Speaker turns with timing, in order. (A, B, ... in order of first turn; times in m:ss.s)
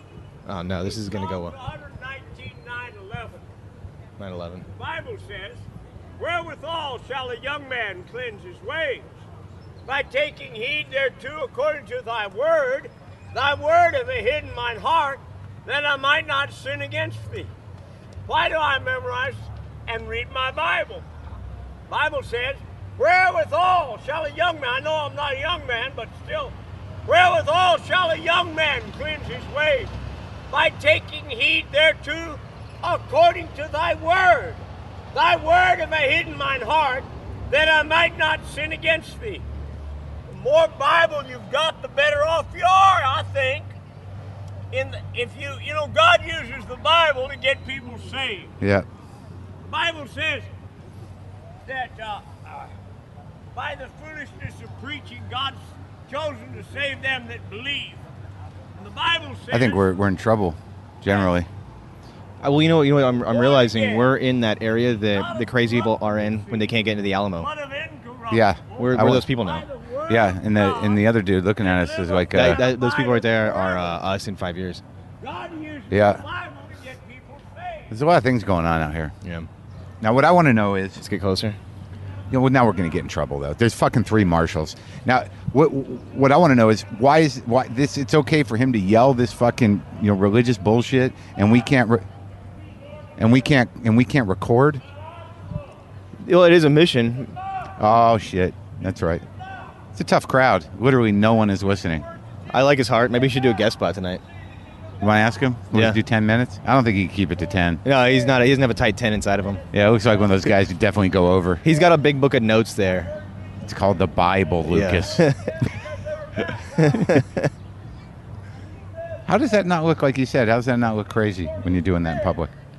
0:00.4-0:01.6 A
0:00.8-0:03.4 B
0:04.2-0:04.6 A
0:04.8-0:05.7 B
0:06.2-0:09.2 B
0:09.8-0:17.5 B
0:18.3-0:21.0 B
0:21.9-0:26.5 B
0:27.0-0:29.9 B
0:30.5-0:34.6 B
0:35.1-0:39.4 B
0:40.3-0:43.7 B
0:44.7-0:48.6 B
0:48.6-0:48.9 C
0:49.6-0:50.5 B
0:51.6-0:52.6 B
0:53.5-0:58.0 B
0:58.7-0:59.9 B
0:59.5-1:01.5 C
1:02.4-1:07.5 A
1:03.3-1:04.1 B
1:05.1-1:06.8 B
1:07.4-1:11.0 B
1:08.3-1:09.2 C
1:08.8-1:09.7 A
1:10.1-1:12.6 C
1:11.6-1:14.0 B
1:12.3-1:14.8 A
1:15.2-1:17.9 B
1:15.9-1:16.2 C
1:17.9-1:19.1 C
1:19.2-1:19.5 A
1:20.0-1:21.0 C
1:21.0-1:21.6 A
1:22.3-1:32.0 C
1:33.2-1:34.8 C
1:36.2-1:37.4 A
1:37.8-1:39.2 C
1:39.9-1:42.0 C
1:42.5-1:44.2 A
1:45.0-1:47.8 C
1:45.7-1:46.0 A
1:47.8-1:49.6 A
1:49.7-1:51.6 C
1:51.6-1:53.1 A
1:53.6-1:55.3 C
1:54.7-1:55.7 A
1:56.4-1:57.5 A
1:59.2-2:02.5 C